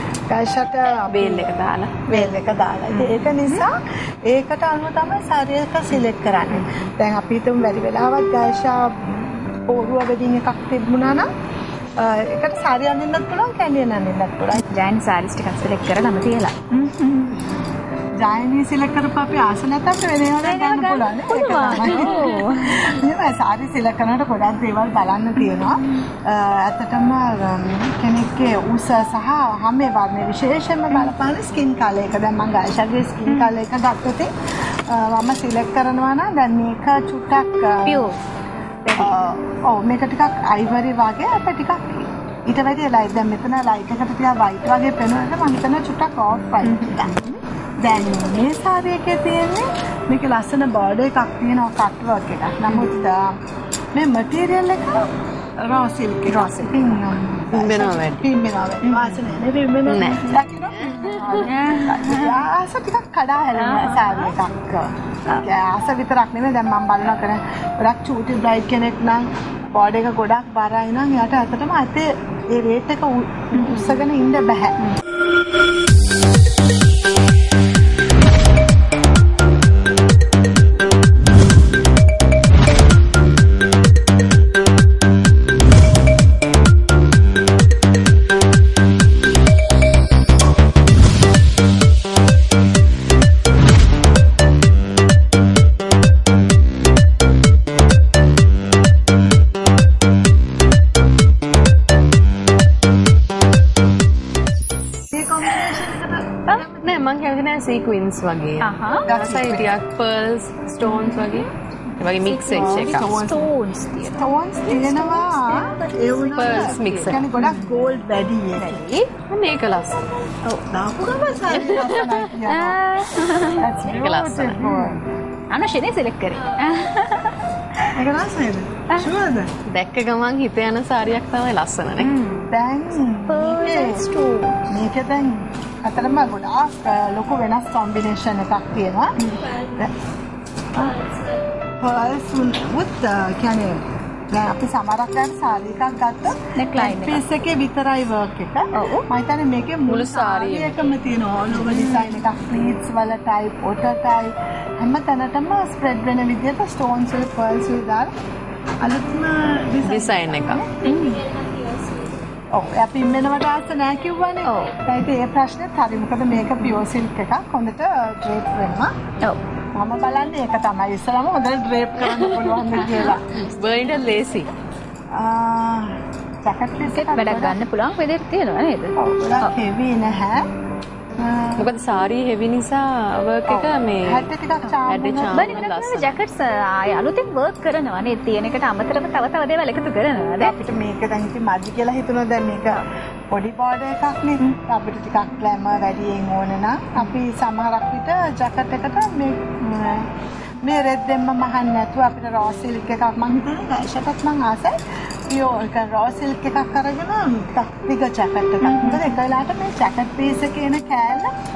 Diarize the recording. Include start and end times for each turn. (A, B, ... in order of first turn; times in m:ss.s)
0:00.3-0:01.5 A
0:01.1-0:02.3 B
0:02.1-0:11.3 A
0:02.9-0:03.6 C
0:12.0-0:14.6 A
0:14.6-0:17.4 C
0:18.2-0:38.1 A
0:20.4-0:23.0 C
0:25.4-0:26.1 C
0:33.3-0:33.5 C
0:37.8-0:38.2 C
0:38.8-0:39.2 C
0:38.9-0:47.3 A
0:46.6-0:47.3 C
0:47.8-0:53.4 A
0:53.9-1:14.8 A
0:56.3-0:57.2 C
0:57.5-0:58.3 B
0:58.8-0:59.1 C
0:59.9-1:00.3 B
1:01.3-1:02.4 C
1:03.5-1:04.3 C
1:13.5-1:14.0 C
1:45.1-1:46.9 A
1:46.8-1:53.0 B
1:48.6-1:49.1 C
1:49.1-1:49.8 A
1:50.8-1:51.5 C
1:52.2-1:57.7 C
1:52.5-1:53.5 A
1:54.1-1:58.8 A
1:56.4-1:57.3 B
1:58.5-1:59.1 C
1:59.3-2:00.3 B
2:00.6-2:05.0 A
2:02.4-2:03.8 C
2:03.9-2:04.7 B
2:04.6-2:05.0 C
2:05.5-2:07.9 C
2:07.9-2:09.5 A
2:09.6-2:12.2 B
2:12.0-2:14.6 C
2:12.5-2:14.1 A
2:14.6-2:19.9 A
2:19.2-2:19.5 C
2:20.7-2:21.1 A
2:21.8-2:38.1 A
2:26.6-2:27.2 C
2:28.7-2:29.1 C
2:29.9-2:30.9 B
2:31.6-2:32.1 C
2:38.8-2:40.7 A
2:39.8-2:40.6 B
2:40.8-2:41.2 C
2:42.5-2:48.9 A
2:44.4-2:44.8 C
2:49.7-2:53.2 A
2:53.4-2:54.5 B
2:55.1-2:57.6 A
2:56.9-2:59.5 C
2:59.0-3:00.5 A
3:01.2-3:01.7 A
3:01.6-3:04.3 B
3:03.5-3:05.5 A
3:04.8-3:06.2 B
3:05.3-3:10.7 C
3:10.4-3:31.3 A
3:28.6-3:29.1 C